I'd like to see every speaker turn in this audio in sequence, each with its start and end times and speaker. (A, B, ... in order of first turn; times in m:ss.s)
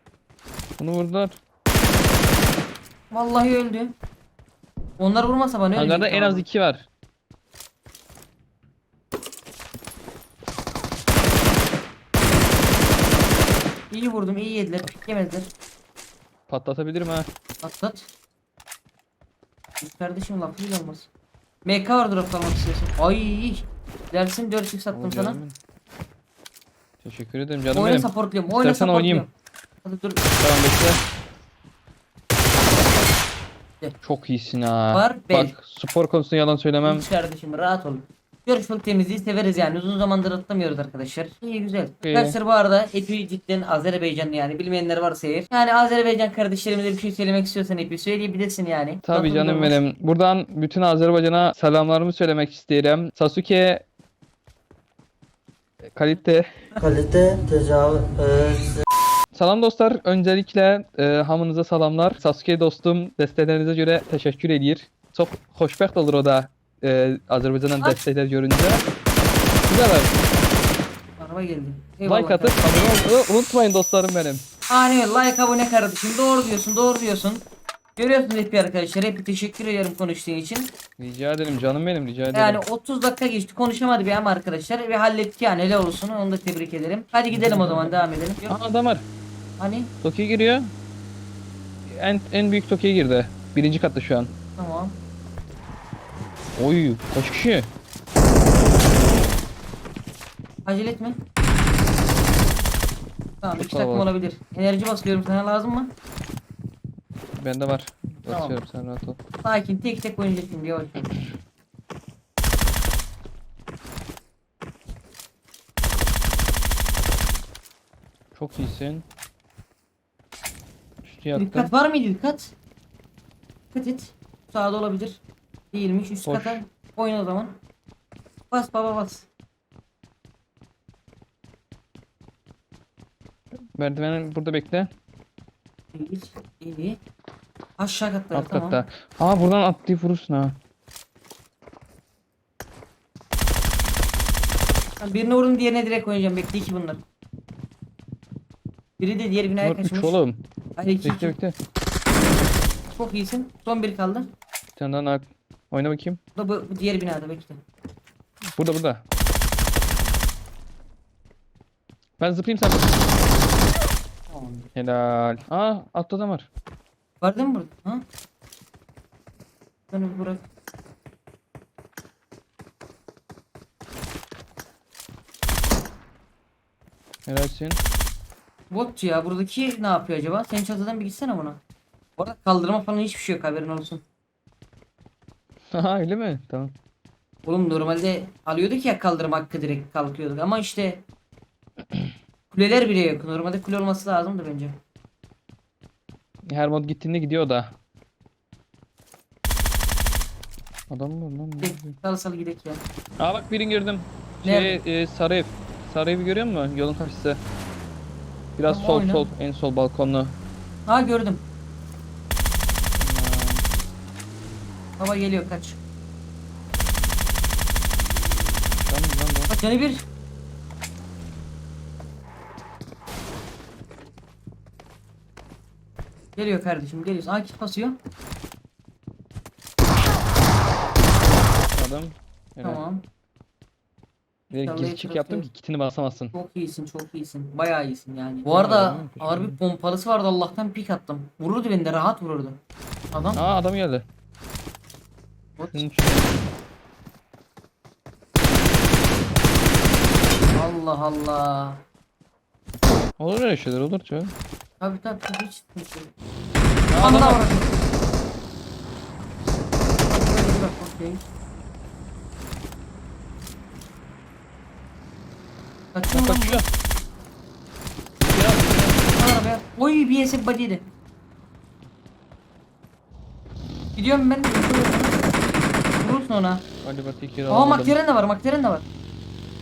0:00.8-0:01.4 A
0:03.1-0:03.9 B
0:05.0-0:06.4 B
0:05.7-0:06.9 A
0:13.9-0:15.5 B
0:16.5-0:17.3 A
0:17.6-0:18.1 B
0:19.8-0:21.1 B
0:21.6-0:25.4 B
0:24.9-0:25.6 A
0:27.0-0:29.3 A
0:27.7-0:29.3 B
0:29.8-0:30.2 B
0:30.4-0:31.0 A
0:34.0-0:37.0 A
0:34.9-0:35.5 B
0:36.8-0:49.8 B
0:42.0-0:42.4 A
0:49.0-0:53.8 A
0:55.8-0:56.5 A
0:56.8-0:58.8 C
0:59.3-1:08.8 A
1:09.7-1:10.2 A
1:11.2-1:12.6 B
1:12.0-1:14.4 A
1:14.7-1:17.4 B
1:18.0-1:20.7 B
1:21.0-1:22.6 A
1:22.3-1:28.5 B
1:27.3-1:29.0 A
1:29.6-1:29.9 B
1:30.0-1:30.7 A
1:31.9-1:34.3 A
1:34.6-1:35.0 B
1:36.6-1:37.7 A
1:40.6-1:41.2 B
1:43.4-1:45.9 B
1:43.6-1:44.1 A
1:47.4-1:49.2 A
1:48.3-1:48.6 B
1:49.4-1:51.1 B
1:58.3-1:59.0 A
2:01.0-2:01.7 A
2:01.3-2:02.5 B
2:03.7-2:05.2 B
2:05.7-2:07.6 B
2:06.2-2:06.6 A
2:08.5-2:09.3 B
2:13.7-2:14.9 A
2:15.9-2:17.0 B
2:17.8-2:18.8 B
2:18.3-2:20.6 A
2:25.0-2:27.0 B
2:29.0-2:30.2 B
2:29.6-2:30.4 A
2:30.8-2:31.3 B
2:31.0-2:31.6 A
2:32.9-2:34.3 B
2:34.8-2:36.2 A
2:36.4-2:37.6 B
2:38.5-2:39.0 A
2:42.2-2:43.0 A
2:44.3-2:44.7 B
2:44.7-2:46.5 A
2:47.2-2:48.0 B
2:49.9-2:50.4 B
2:57.2-2:57.8 A
2:58.7-3:01.6 B
3:02.2-3:04.0 B
3:05.7-3:06.7 A
3:07.4-3:11.0 B
3:12.5-3:14.8 B
3:16.5-3:17.8 A
3:20.9-3:22.0 A
3:21.6-3:22.8 B
3:23.2-3:27.4 A
3:24.4-3:24.8 B
3:28.6-3:30.4 A
3:28.7-3:29.3 B
3:30.9-3:31.4 B
3:33.0-3:33.6 A
3:35.0-3:35.8 B
3:38.8-3:39.5 A
3:39.5-3:40.0 B
3:46.4-3:48.0 B
3:51.7-3:52.8 A
3:52.6-3:53.0 B
3:54.5-3:56.3 A
3:54.6-3:55.5 B
3:56.3-4:02.6 B
3:58.5-3:59.6 A
4:03.1-4:03.4 B
4:03.3-4:04.0 A
4:05.6-4:05.8 B
4:05.6-4:06.3 A
4:10.5-4:11.8 B
4:13.2-4:14.3 A
4:14.8-4:16.1 B
4:16.9-4:17.4 A
4:17.0-4:17.7 B
4:20.1-4:21.2 B
4:25.9-4:26.6 B
4:26.1-4:26.6 A
4:28.2-4:29.1 A
4:29.2-4:30.8 B
4:34.0-4:35.2 B
4:36.0-4:36.6 B
4:36.8-4:38.0 A
4:37.5-4:38.8 B